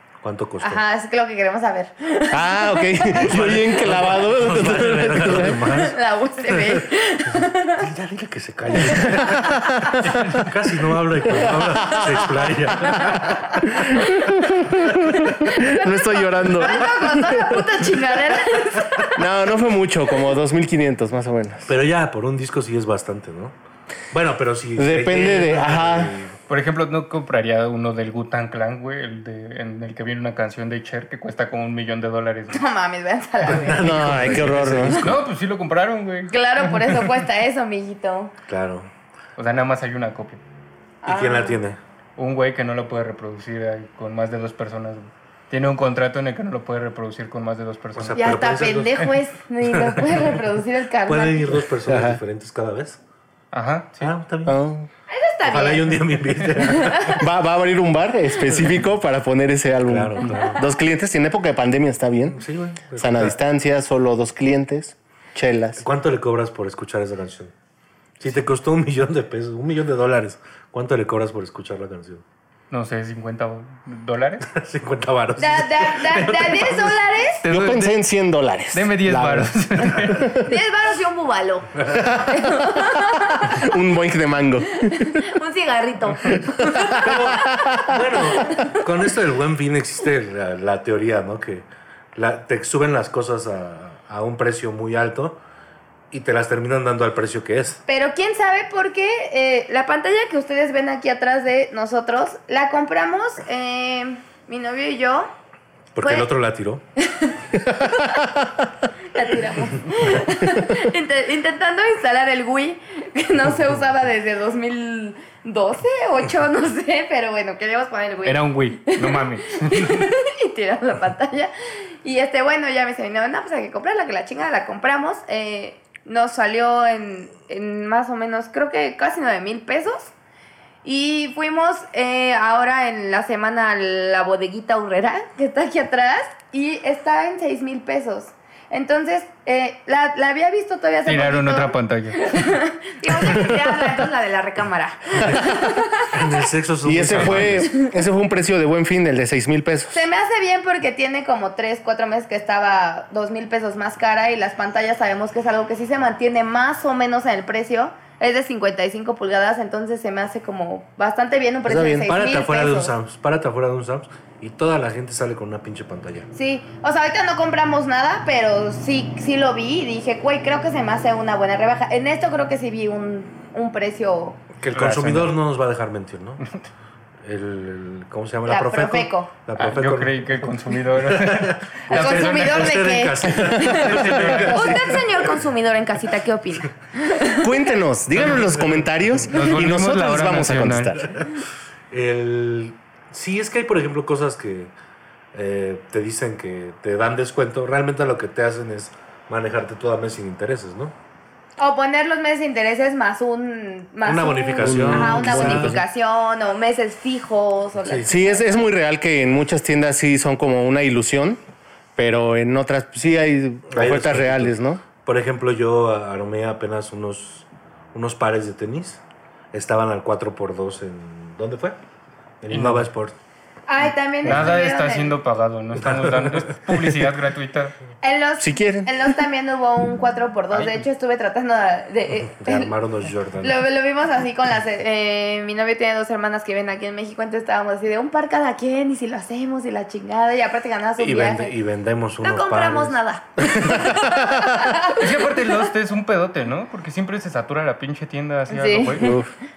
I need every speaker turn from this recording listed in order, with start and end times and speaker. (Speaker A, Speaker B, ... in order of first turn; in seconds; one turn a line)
Speaker A: 0.2-0.8
Speaker B: 0.6-3.6
Speaker C: 2.3-5.8
Speaker A: 3.2-6.8
Speaker B: 5.6-7.9
Speaker A: 7.8-13.7
Speaker B: 8.9-9.2
Speaker C: 9.3-10.2
Speaker D: 10.0-10.5
Speaker C: 11.3-13.1
Speaker B: 13.0-19.2
Speaker C: 13.6-18.0
Speaker C: 19.1-21.7
Speaker A: 21.7-23.6
Speaker A: 24.1-26.3
Speaker C: 24.8-26.1
Speaker D: 26.5-32.6
Speaker B: 32.5-34.4
Speaker A: 33.5-35.1
Speaker C: 33.7-35.1
Speaker D: 34.9-37.1
Speaker B: 36.3-38.3
Speaker A: 38.5-38.9
Speaker D: 39.4-40.4
Speaker B: 41.0-41.6
Speaker A: 41.0-41.8
Speaker D: 42.2-48.4
Speaker A: 48.0-50.4
Speaker B: 48.1-51.7
Speaker A: 51.1-53.0
Speaker C: 51.9-52.2
Speaker D: 53.5-54.1
Speaker A: 54.0-54.6
Speaker C: 54.5-54.9
Speaker B: 55.1-57.2
Speaker A: 55.5-57.2
Speaker C: 57.2-65.8
Speaker A: 59.9-60.6
Speaker B: 60.3-60.6
Speaker A: 62.3-63.4
Speaker A: 65.8-67.5
Speaker A: 68.2-72.2
Speaker D: 72.7-74.5
Speaker A: 74.5-77.0
Speaker B: 75.4-77.4
Speaker D: 77.4-78.0
Speaker C: 77.5-80.5
Speaker D: 78.7-80.5
Speaker B: 80.4-83.7
Speaker A: 81.8-82.3
Speaker C: 83.3-85.3
Speaker B: 85.0-87.9
Speaker C: 86.6-87.9
Speaker A: 87.0-95.4
Speaker B: 88.4-88.8
Speaker A: 96.1-97.8
Speaker B: 97.9-105.3
Speaker A: 106.0-106.8
Speaker B: 106.0-106.3
Speaker B: 107.0-107.4
Speaker C: 107.8-108.5
Speaker B: 109.1-121.5
Speaker D: 118.2-120.1
Speaker B: 122.0-130.1
Speaker B: 130.8-146.3
Speaker D: 141.1-142.4
Speaker C: 145.3-145.6
Speaker A: 146.1-147.7
Speaker C: 146.8-150.1
Speaker D: 147.1-147.5
Speaker B: 149.9-162.9
Speaker C: 161.7-162.1
Speaker A: 162.1-166.3
Speaker B: 166.3-174.4
Speaker A: 174.6-176.4
Speaker D: 174.7-175.4
Speaker A: 177.2-185.3
Speaker B: 178.5-179.3
Speaker D: 179.6-182.9
Speaker B: 181.9-187.7
Speaker D: 183.6-184.9
Speaker C: 187.4-191.2
Speaker A: 188.2-189.2
Speaker D: 189.3-191.0
Speaker A: 191.9-194.7
Speaker A: 195.3-200.9
Speaker B: 201.6-208.6
Speaker A: 204.0-205.8
Speaker C: 204.6-205.8
Speaker A: 207.8-208.1
Speaker C: 208.1-211.4
Speaker C: 212.0-214.8
Speaker A: 213.7-219.0
Speaker A: 219.5-221.8
Speaker A: 222.4-223.2
Speaker D: 222.5-222.9
Speaker B: 223.7-225.2
Speaker D: 224.2-227.8
Speaker A: 225.8-226.9
Speaker B: 228.0-232.7
Speaker C: 228.4-228.9
Speaker D: 230.5-230.8
Speaker A: 232.4-233.6
Speaker B: 233.4-241.6
Speaker A: 241.0-242.9
Speaker B: 242.2-245.6
Speaker C: 243.6-244.6
Speaker D: 244.9-249.1
Speaker B: 248.5-249.1
Speaker C: 249.0-249.3